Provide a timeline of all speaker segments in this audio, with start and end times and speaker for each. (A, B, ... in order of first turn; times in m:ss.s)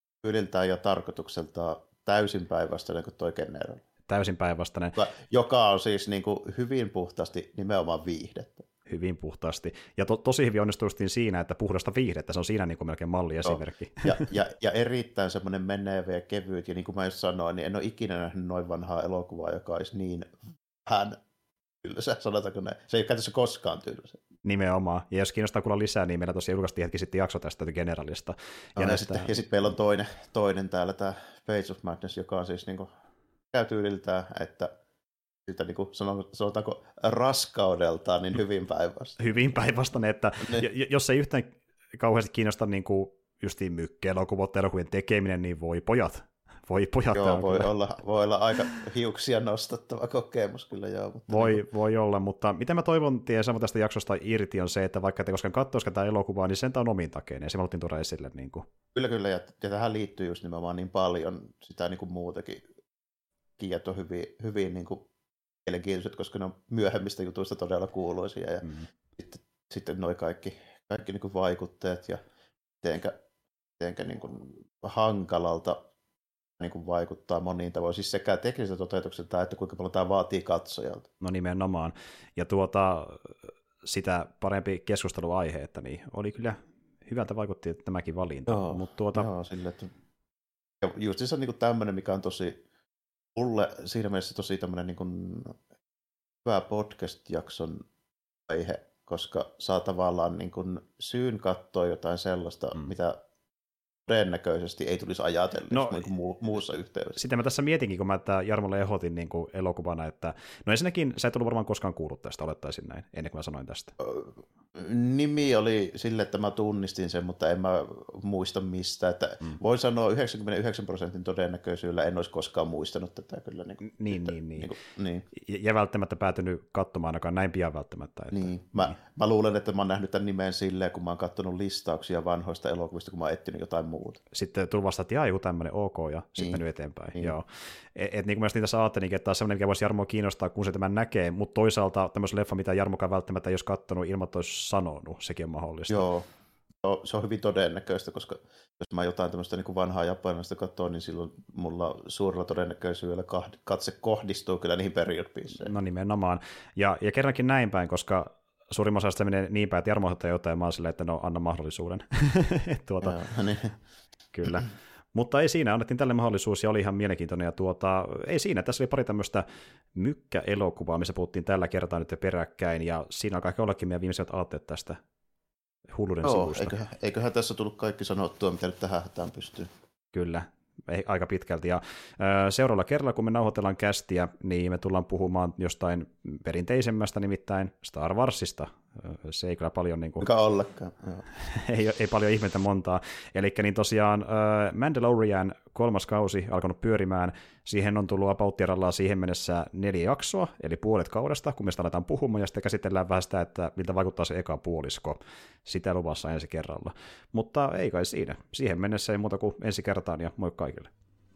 0:00.2-0:03.8 A
0:04.1-0:05.0 B
0:05.0-0:08.7 A
0:08.9-0:14.3 B
0:13.4-0:21.2 A
0:21.8-0:24.2 A
0:24.4-0:29.3 B
0:28.8-0:32.9 A
0:33.5-0:34.7 A
0:35.4-0:39.2 A
0:39.2-0:47.7 B
0:47.1-0:51.6 A
0:51.3-0:58.7 B
0:58.9-1:02.6 A
1:03.6-1:05.1 A
1:05.6-1:12.2 A
1:12.8-1:13.2 A
1:13.8-1:15.8 A
1:16.6-1:21.1 A
1:21.2-1:29.3 B
1:28.5-1:29.9 A
1:30.8-1:32.6 A
1:33.4-1:35.6 A
1:36.4-1:37.8 A
1:38.5-1:43.2 A
1:44.1-1:47.2 A
1:45.7-1:46.1 B
1:47.2-1:54.0 B
1:54.0-2:05.2 A
2:03.8-2:04.7 B
2:05.3-2:09.0 B
2:08.3-2:14.2 A
2:14.3-2:26.1 B
2:25.9-2:26.3 A
2:26.8-2:35.7 A
2:35.6-2:43.2 B
2:43.0-2:43.8 A
2:44.3-2:55.0 B
2:56.0-2:56.8 B
2:56.2-2:59.7 A
3:00.1-3:10.3 B
3:10.2-3:11.3 A
3:11.4-3:30.9 B